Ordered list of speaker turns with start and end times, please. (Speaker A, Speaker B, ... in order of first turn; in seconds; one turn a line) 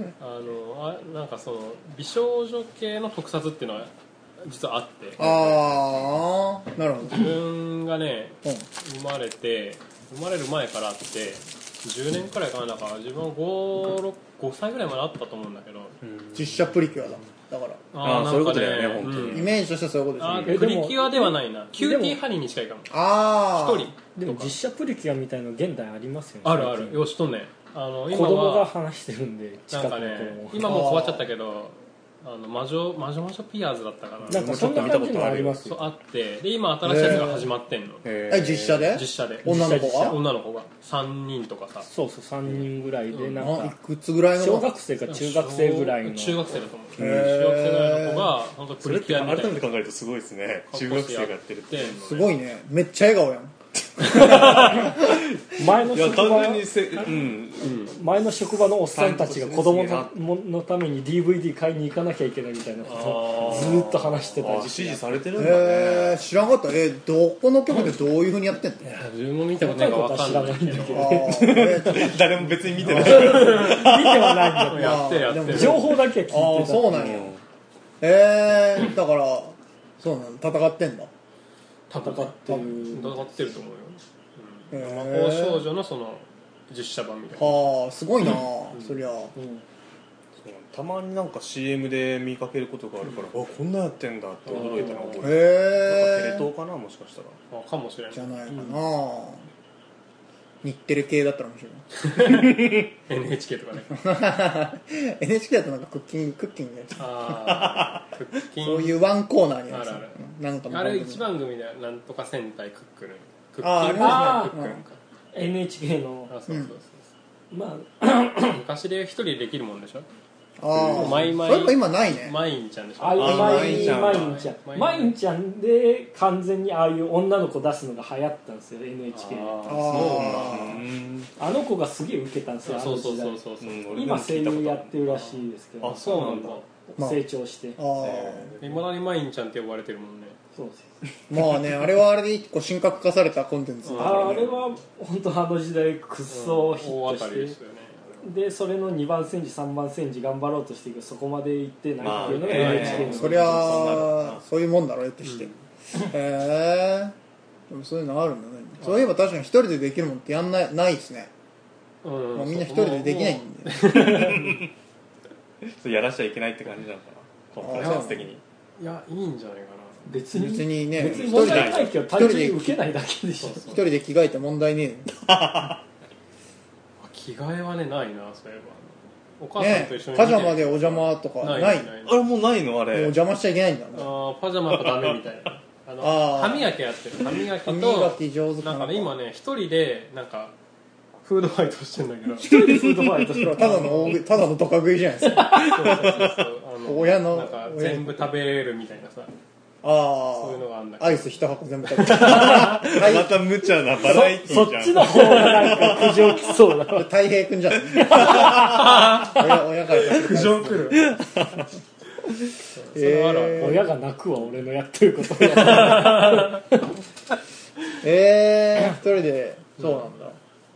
Speaker A: 0.2-6.0
Speaker B: 5.2-7.4
Speaker A: 7.0-16.0
Speaker C: 16.0-16.6
Speaker B: 16.3-17.8
Speaker A: 17.9-19.5
Speaker C: 18.0-19.5
Speaker B: 19.3-20.6
Speaker A: 20.2-22.9
Speaker D: 20.5-22.2
Speaker B: 22.9-23.9
Speaker A: 23.5-24.6
Speaker D: 24.1-27.1
Speaker A: 26.4-28.7
Speaker D: 28.1-30.8
Speaker A: 29.7-35.0
Speaker B: 30.6-31.3
Speaker C: 34.3-35.8
Speaker D: 34.3-35.8
Speaker A: 35.7-38.0
Speaker B: 36.8-37.5
Speaker C: 38.0-39.0
Speaker B: 38.3-40.2
Speaker A: 38.9-41.9
Speaker D: 39.4-40.2
Speaker D: 41.9-43.8
Speaker A: 43.1-43.5
Speaker B: 43.4-44.7
Speaker D: 44.4-46.5
Speaker A: 45.1-49.7
Speaker C: 47.0-47.3
Speaker B: 47.0-48.3
Speaker C: 48.8-52.0
Speaker A: 50.7-52.3
Speaker B: 52.0-53.5
Speaker C: 54.0-57.9
Speaker B: 54.1-54.7
Speaker D: 54.6-55.0
Speaker D: 55.5-56.7
Speaker D: 57.6-65.5
Speaker C: 58.9-60.2
Speaker A: 62.9-64.5
Speaker C: 63.3-66.2
Speaker B: 65.4-69.0
Speaker A: 68.8-71.2
Speaker D: 69.6-72.2
Speaker B: 70.9-72.2
Speaker C: 71.2-74.5
Speaker D: 72.8-77.1
Speaker A: 73.0-74.0
Speaker A: 74.7-76.0
Speaker B: 74.7-77.3
Speaker C: 76.7-77.4
Speaker B: 78.0-81.1
Speaker A: 81.9-87.6
Speaker D: 82.0-83.3
Speaker B: 82.5-82.8
Speaker B: 84.7-85.7
Speaker B: 87.3-89.3
Speaker D: 89.3-89.6
Speaker C: 90.4-97.4
Speaker A: 94.5-95.2
Speaker D: 94.8-95.1
Speaker B: 95.2-96.5
Speaker A: 97.5-98.3
Speaker B: 98.1-99.5
Speaker B: 100.6-101.9
Speaker A: 102.0-104.0
Speaker B: 103.9-107.3
Speaker A: 107.0-109.0
Speaker C: 107.7-108.0
Speaker B: 108.6-111.2
Speaker A: 109.7-115.0
Speaker B: 113.6-114.8
Speaker D: 113.9-114.5
Speaker D: 115.3-116.3
Speaker A: 116.3-117.1
Speaker B: 116.5-116.7
Speaker D: 117.5-118.6
Speaker A: 118.5-120.1
Speaker B: 120.6-122.4
Speaker C: 120.7-121.3
Speaker A: 120.9-125.1
Speaker D: 123.0-129.9
Speaker C: 123.2-124.4
Speaker B: 123.2-123.9
Speaker A: 129.1-130.6
Speaker B: 129.7-130.8
Speaker C: 129.9-131.3
Speaker D: 131.4-137.8
Speaker A: 132.7-133.9
Speaker C: 133.6-135.0
Speaker A: 135.1-135.4
Speaker C: 135.8-136.6
Speaker A: 136.0-136.7
Speaker B: 137.0-137.2
Speaker B: 137.8-138.5
Speaker C: 138.0-138.8
Speaker A: 138.6-140.4
Speaker D: 140.5-141.0
Speaker B: 141.3-144.5
Speaker A: 143.8-144.4
Speaker D: 143.9-147.6
Speaker A: 146.3-148.3
Speaker D: 148.2-154.1
Speaker C: 152.0-154.4
Speaker A: 152.2-153.5
Speaker B: 152.8-157.2
Speaker A: 155.2-155.6
Speaker B: 157.7-161.3
Speaker A: 158.8-159.1
Speaker A: 162.0-164.6
Speaker B: 162.3-164.3
Speaker C: 164.0-164.7
Speaker C: 165.6-168.4
Speaker B: 167.6-168.3
Speaker A: 167.8-168.1
Speaker A: 168.8-170.1
Speaker D: 170.1-173.8
Speaker B: 170.3-172.8
Speaker C: 171.0-172.0
Speaker A: 173.4-173.8
Speaker B: 173.7-175.1
Speaker C: 175.2-175.8
Speaker A: 177.0-182.3
Speaker B: 179.6-181.9
Speaker C: 182.1-183.2
Speaker B: 182.9-184.1
Speaker A: 183.9-190.6
Speaker C: 184.7-185.3
Speaker B: 186.0-186.7
Speaker B: 187.6-189.1
Speaker A: 191.2-192.5
Speaker D: 192.4-194.1
Speaker C: 192.5-193.5
Speaker B: 193.3-196.1
Speaker A: 193.6-194.2
Speaker C: 195.4-196.4
Speaker A: 195.6-199.3
Speaker B: 196.8-198.3
Speaker B: 199.8-203.4
Speaker A: 200.4-201.3
Speaker A: 202.0-202.7
Speaker C: 202.0-206.5
Speaker D: 204.0-207.1
Speaker A: 205.1-205.6
Speaker B: 206.9-211.0
Speaker C: 207.9-209.0
Speaker D: 208.0-209.4
Speaker A: 208.7-209.4
Speaker C: 210.0-210.3
Speaker A: 210.1-211.1
Speaker C: 210.9-211.7
Speaker A: 212.7-213.9
Speaker B: 212.9-213.9
Speaker D: 213.5-216.8
Speaker A: 216.1-216.3
Speaker B: 218.0-220.4